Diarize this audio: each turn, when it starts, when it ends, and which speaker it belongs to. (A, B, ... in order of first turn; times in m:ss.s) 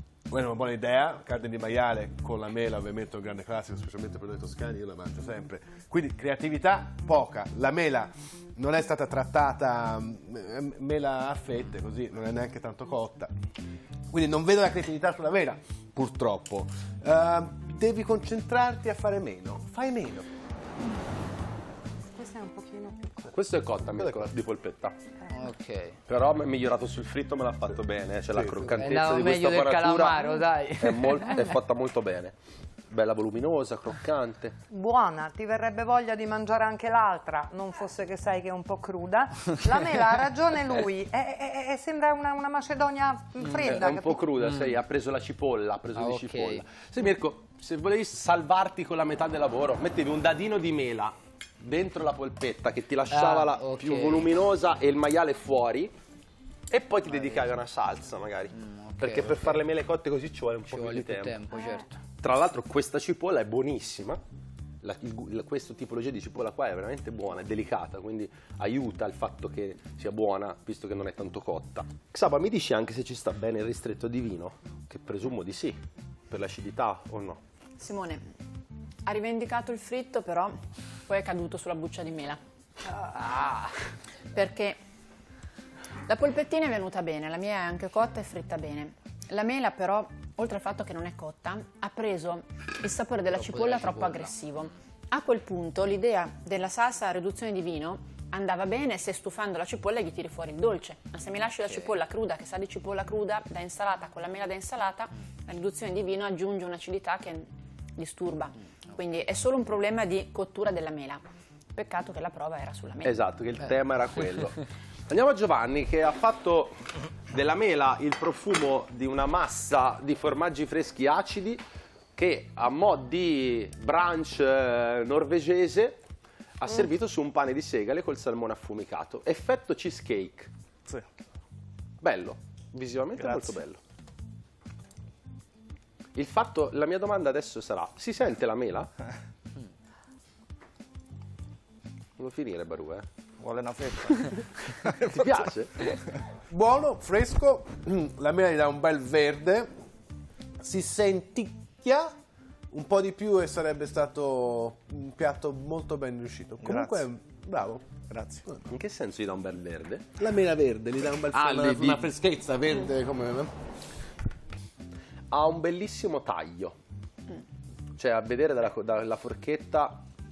0:00.3-0:13.3 A
0:14.1-0:20.3 A
0:22.1-0:23.3 B
0:23.3-0:25.0 C
0:25.3-0:26.0 D
0:26.1-0:32.3 C
0:28.3-0:28.8 A
0:28.7-0:31.5 D
0:32.9-0:34.6 C
0:34.7-0:44.3 B
0:43.5-0:43.7 D
0:43.5-0:55.9 C
0:44.4-0:44.8 D
0:45.9-0:46.6 D
0:53.1-0:54.3 D
0:56.7-1:01.4 C
0:58.6-0:59.6 D
1:00.7-1:02.0 D
1:02.2-1:04.2 C
1:04.8-1:17.4 C
1:17.8-1:18.2 E
1:19.0-1:22.4 E
1:24.3-1:24.8 E
1:26.1-1:51.2 E
1:33.3-1:34.3 D
1:51.7-1:53.2 E
1:53.0-2:01.6 C
2:02.2-2:06.0 C
2:06.6-2:10.5 C
2:12.0-2:13.8 C
2:13.2-2:13.6 F
2:16.2-2:18.9 C
2:22.2-2:23.0 C
2:23.4-2:25.4 F
2:25.0-2:26.0 C
2:26.5-2:29.7 A
2:30.6-2:32.1 A
2:32.7-2:37.9 A
2:36.6-2:37.0 F
2:38.1-2:38.4 F
2:38.7-2:40.2 C
2:40.2-2:43.5 A
2:41.3-2:42.1 C
2:45.3-2:46.8 C
2:48.0-2:50.0 C